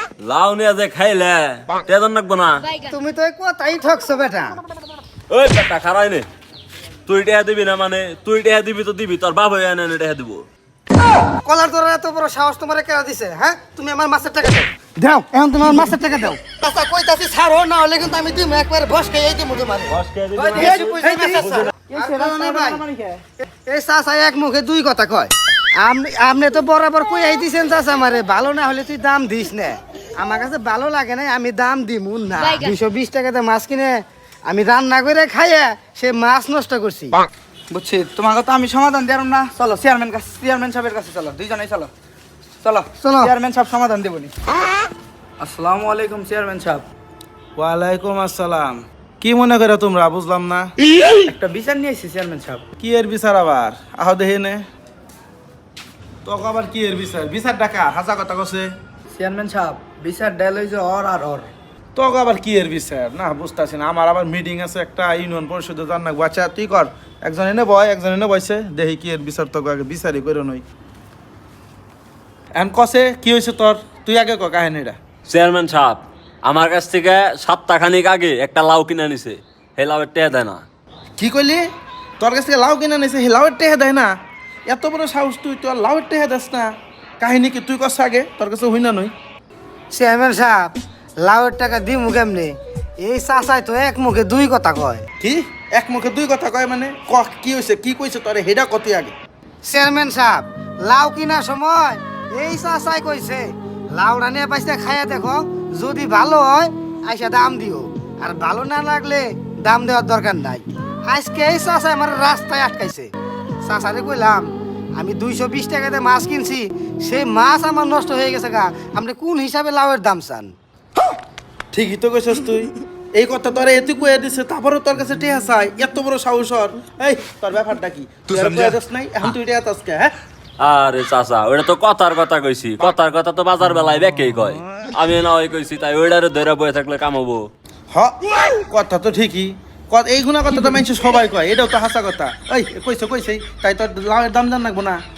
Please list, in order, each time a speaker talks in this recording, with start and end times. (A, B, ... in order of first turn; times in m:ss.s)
0:00.2-0:02.7 A
0:02.8-0:04.6 B
0:05.3-0:06.2 A
0:07.1-0:10.5 A
0:11.4-0:20.0 B
0:19.9-0:21.7 A
0:20.3-0:23.2 C
0:20.6-0:22.8 B
0:20.8-0:21.5 D
0:23.4-0:37.2 B
0:37.7-0:41.9 C
0:42.6-0:44.3 C
0:43.0-0:43.3 B
0:45.4-0:46.9 C
0:47.6-0:50.7 D
0:51.2-0:52.6 C
0:52.8-0:54.6 D
0:56.2-0:58.7 D
0:59.1-1:01.5 C
1:02.0-1:10.6 D
1:12.5-1:15.0 D
1:15.3-1:20.6 A
1:21.2-1:21.7 D
1:22.2-1:24.1 D
1:24.7-1:29.1 D
1:29.9-1:35.0 B
1:35.2-1:39.1 D
1:39.6-1:53.1 B
1:53.6-2:00.5 B
2:01.7-2:10.1 D
2:10.6-2:17.5 A
2:17.9-2:25.0 D